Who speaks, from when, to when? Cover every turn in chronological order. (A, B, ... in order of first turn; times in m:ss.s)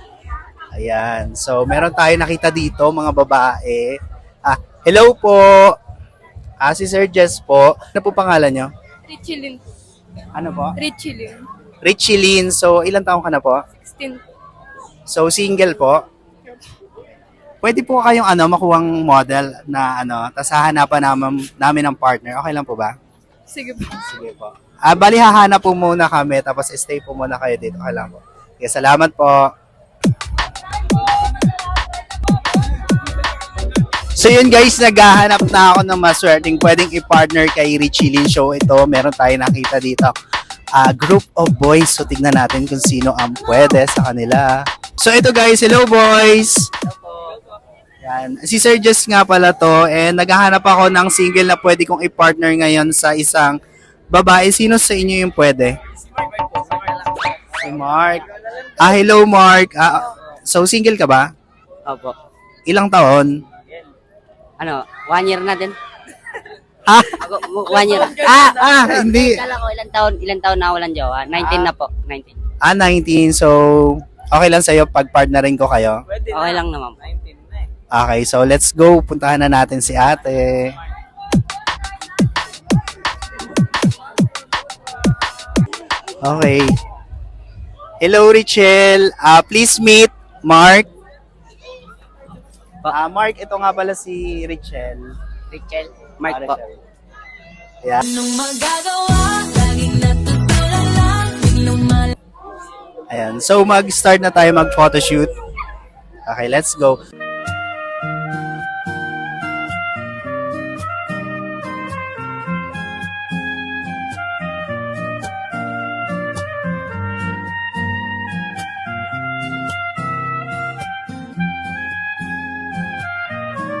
0:00.8-0:05.7 A
0:06.6-0:08.7 A
0:09.1-0:09.6 B
0:10.3-0:10.8 A
0:10.8-0:11.4 B
0:11.8-0:13.6 A
0:13.8-0:14.2 B
0:15.1-0:16.0 A
0:17.6-0:22.9 A
0:23.5-0:24.0 B
0:24.0-0:29.5 A
0:34.2-0:40.1 A
0:40.8-0:46.7 A
0:48.0-0:53.6 A
0:54.1-0:55.8 A
0:57.6-0:58.2 A
0:58.8-1:01.3 A
1:01.9-1:02.1 C
1:02.7-1:03.3 A
1:04.6-1:05.8 C
1:06.9-1:07.2 A
1:07.1-1:12.4 C
1:08.1-1:09.4 A
1:12.6-1:16.0 A
1:16.2-1:17.2 C
1:17.9-1:20.7 A
1:26.2-1:26.8 A
1:28.0-1:30.9 A
1:32.9-1:35.1 A
1:35.5-1:36.7 C
1:36.3-1:36.6 A
1:38.0-1:42.1 D
1:43.1-1:45.3 A
1:46.2-1:47.0 A